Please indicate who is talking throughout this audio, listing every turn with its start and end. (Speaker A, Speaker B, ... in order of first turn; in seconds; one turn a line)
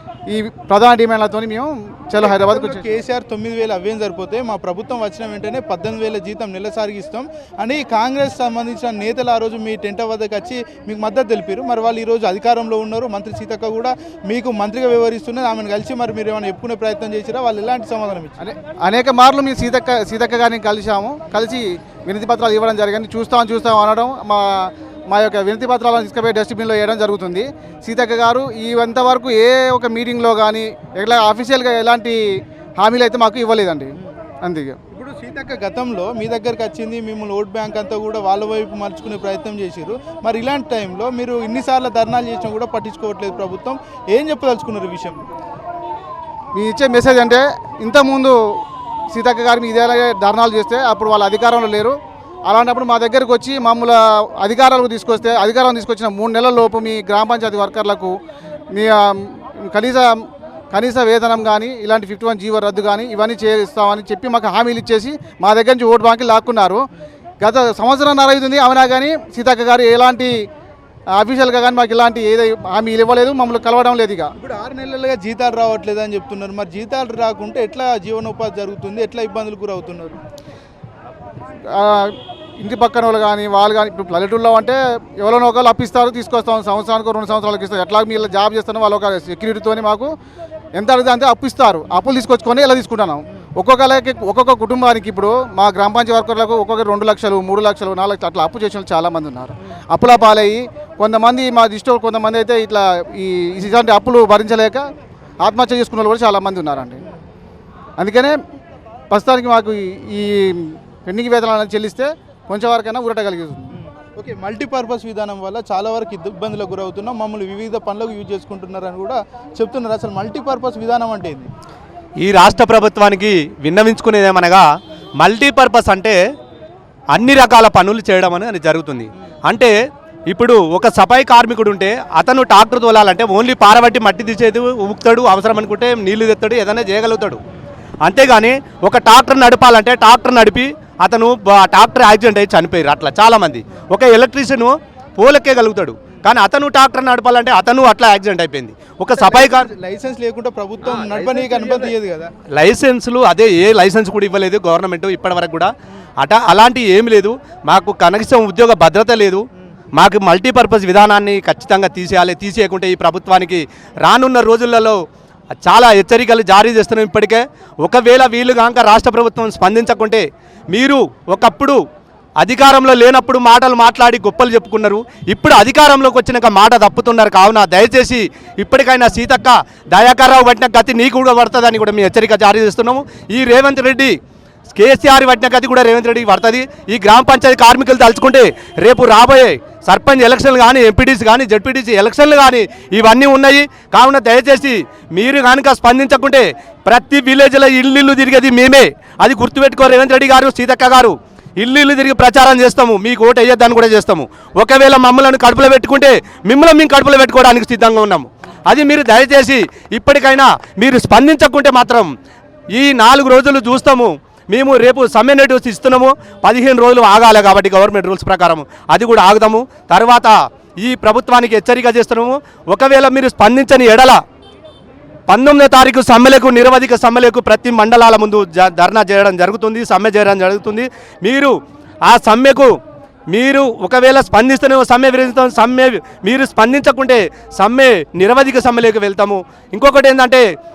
Speaker A: 0.3-2.9
Speaker B: 2.2-18.4
Speaker A: 18.4-32.2
Speaker A: 32.8-34.8
Speaker B: 34.9-45.2
Speaker A: 46.5-48.4
Speaker A: 49.1-51.9
Speaker A: 52.5-58.1
Speaker A: 58.7-60.1
Speaker A: 60.7-66.8
Speaker A: 67.4-70.3
Speaker A: 71.2-74.3
Speaker B: 74.4-80.2
Speaker A: 81.7-90.1
Speaker A: 90.8-104.8
Speaker A: 105.4-107.0
Speaker A: 108.0-108.3
Speaker A: 109.1-113.7
Speaker B: 113.7-121.5
Speaker C: 122.2-124.7
Speaker C: 125.2-126.2
Speaker C: 127.1-129.7
Speaker C: 130.3-137.4
Speaker C: 138.0-149.7
Speaker B: 149.2-152.3
Speaker C: 151.0-151.9
Speaker C: 152.5-159.4
Speaker C: 160.0-165.0
Speaker C: 165.6-171.8
Speaker C: 172.4-184.2
Speaker C: 184.7-212.1
Speaker C: 212.7-224.2
Speaker C: 225.3-231.5
Speaker C: 232.1-232.7
Speaker C: 233.3-240.4